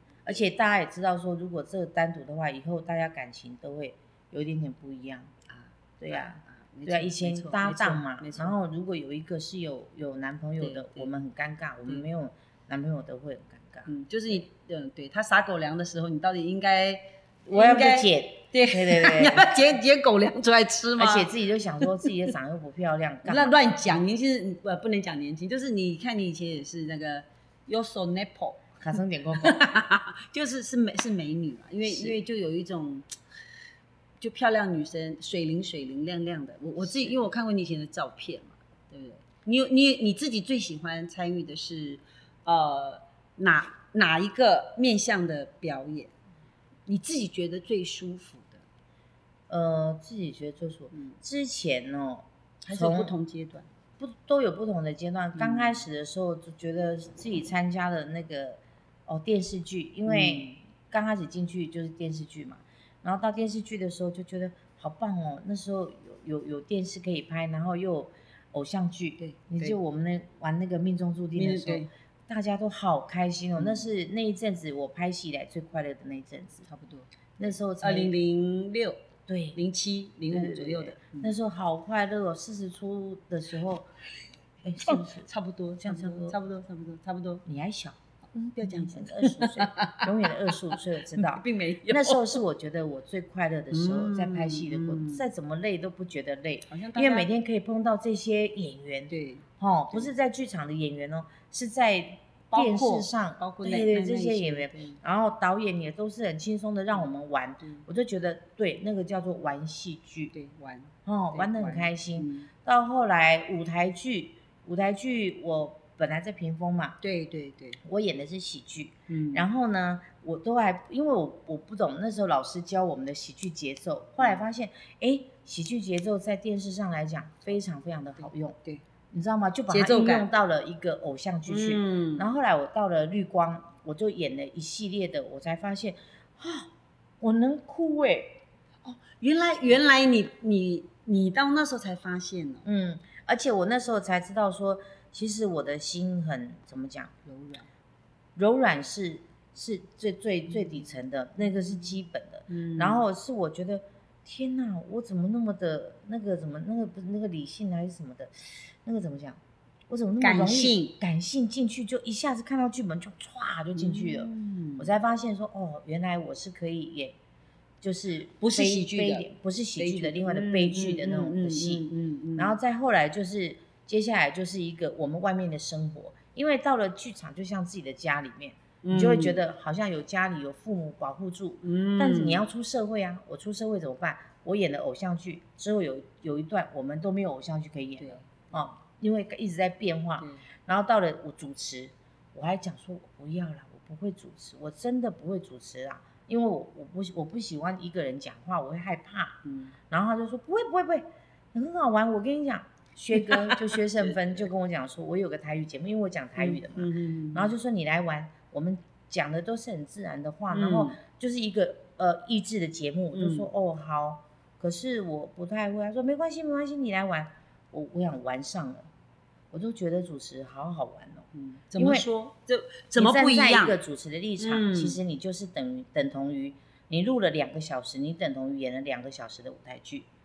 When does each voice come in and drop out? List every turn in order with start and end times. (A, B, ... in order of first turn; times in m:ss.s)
0:00.2-0:05.3 A
0:05.5-0:08.6 B
0:06.0-0:13.9 A
0:10.6-0:11.1 B
0:13.8-0:21.3 B
0:17.5-0:19.5 A
0:21.0-0:23.6 A
0:21.8-0:22.1 B
0:23.2-0:28.7 B
0:28.8-0:29.6 A
0:29.4-0:33.1 B
0:31.8-0:32.2 A
0:34.2-0:46.1 B
0:46.9-0:48.6 B
0:49.5-0:53.1 A
0:52.6-0:53.7 B
0:54.0-1:16.6 A
0:55.4-0:55.8 B
1:00.1-1:00.6 B
1:09.2-1:09.8 B
1:11.3-1:11.9 B
1:13.6-1:13.8 B
1:16.6-1:17.1 B
1:17.4-1:18.1 A
1:17.8-1:21.3 B
1:19.3-1:19.6 A
1:20.3-1:23.9 A
1:24.6-1:25.3 A
1:24.8-1:27.4 B
1:25.8-1:26.4 A
1:27.4-1:28.0 A
1:28.3-1:32.4 B
1:28.6-1:50.3 A
1:33.7-1:35.2 B
1:36.7-1:37.3 B
1:39.1-1:40.1 B
1:42.5-1:45.0 B
1:50.3-1:52.5 B
1:51.0-1:57.0 A
1:57.0-1:57.8 B
1:57.8-2:08.6 A
1:59.1-1:59.4 B
2:09.1-2:18.4 A
2:09.7-2:10.3 B
2:11.5-2:12.3 B
2:18.8-2:22.6 B
2:22.6-2:27.1 A
2:27.2-2:27.7 B
2:28.4-2:47.2 A
2:32.5-2:33.0 B
2:40.2-2:41.0 B
2:43.7-2:44.9 B
2:47.8-3:38.9 A
2:48.4-2:52.6 B
2:58.8-2:59.4 B
3:01.6-3:02.4 B
3:08.0-3:08.4 B
3:19.4-3:19.7 B
3:23.1-3:24.1 B
3:26.4-3:27.5 B
3:30.5-3:31.0 B
3:33.1-3:33.5 B
3:39.5-3:42.0 A
3:41.3-3:43.8 B
3:43.0-3:50.1 A
3:44.4-3:45.0 B